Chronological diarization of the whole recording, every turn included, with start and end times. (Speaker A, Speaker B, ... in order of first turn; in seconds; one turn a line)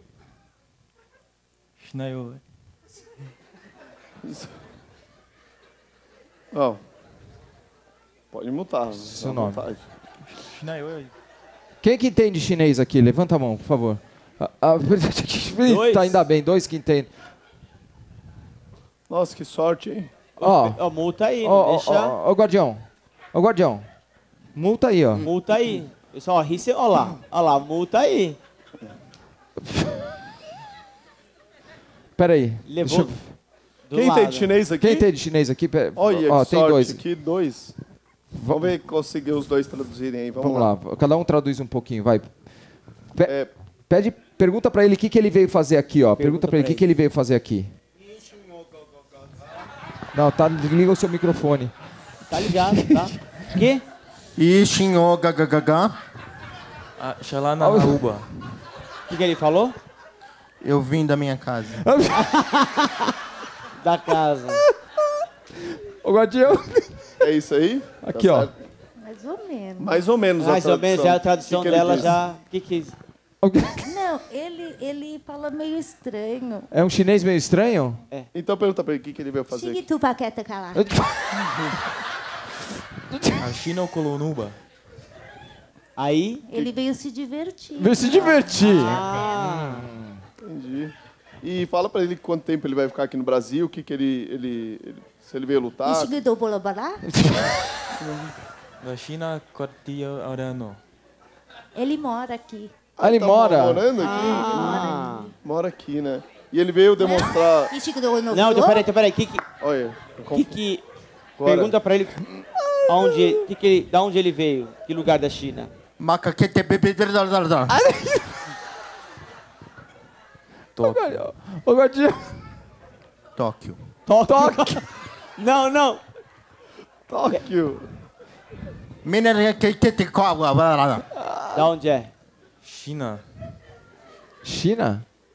Speaker A: 1.8-2.4
Speaker B: 4.2-4.5
Speaker B: 6.5-6.8
Speaker B: 8.3-9.8
Speaker C: 9.0-9.7
Speaker A: 10.3-11.1
Speaker C: 11.8-17.2
Speaker D: 15.6-16.3
Speaker B: 19.1-20.1
Speaker D: 20.4-22.2
Speaker C: 20.4-20.8
Speaker C: 21.4-23.9
Speaker C: 24.6-25.3
Speaker D: 25.2-28.4
Speaker C: 29.7-30.1
Speaker C: 32.2-33.3
Speaker D: 32.7-33.2
Speaker D: 33.9-34.5
Speaker B: 33.9-35.1
Speaker C: 34.8-37.0
Speaker B: 36.0-37.8
Speaker C: 38.4-38.8
Speaker B: 38.5-40.7
Speaker C: 40.4-47.7
Speaker B: 43.3-43.5
Speaker D: 46.2-46.9
Speaker C: 50.1-51.8
Speaker D: 52.3-53.8
Speaker C: 52.3-53.1
Speaker E: 54.4-56.0
Speaker A: 57.0-58.3
Speaker C: 57.6-58.3
Speaker D: 59.1-59.8
Speaker E: 60.6-61.9
Speaker C: 61.7-62.5
Speaker D: 62.3-62.9
Speaker D: 63.8-64.7
Speaker C: 65.7-67.1
Speaker B: 67.2-68.5
Speaker C: 68.0-68.5
Speaker F: 69.0-70.0
Speaker B: 69.8-72.2
Speaker D: 70.4-73.0
Speaker C: 73.4-74.0
Speaker F: 73.8-76.7
Speaker C: 76.7-78.0
Speaker B: 78.3-79.8
Speaker F: 79.5-80.9
Speaker C: 80.7-81.8
Speaker C: 83.1-83.4
Speaker A: 83.4-84.6
Speaker D: 86.0-86.5
Speaker F: 86.5-89.3
Speaker C: 87.8-90.2
Speaker D: 88.0-89.9
Speaker B: 90.4-96.2
Speaker F: 95.8-97.1
Speaker C: 97.1-97.6
Speaker B: 98.0-98.3
Speaker A: 98.8-100.8
Speaker F: 101.8-102.7
Speaker B: 103.0-104.9
Speaker C: 103.0-103.9
Speaker D: 104.0-105.3
Speaker F: 104.0-105.3
Speaker B: 105.4-107.8
Speaker F: 107.0-108.9
Speaker D: 108.3-109.4
Speaker B: 109.6-110.6
Speaker D: 110.3-110.8
Speaker B: 111.4-111.8
Speaker D: 111.4-112.2
Speaker C: 112.6-113.4
Speaker D: 112.9-115.7
Speaker E: 116.0-117.7
Speaker C: 117.7-118.5
Speaker A: 120.8-121.2
Speaker C: 120.8-122.6
Speaker E: 123.4-123.8
Speaker D: 124.1-126.0
Speaker C: 124.3-124.8
Speaker B: 127.1-127.9
Speaker E: 129.0-131.1
Speaker C: 131.2-131.7
Speaker D: 131.5-132.1
Speaker A: 132.6-133.2
Speaker C: 134.4-135.1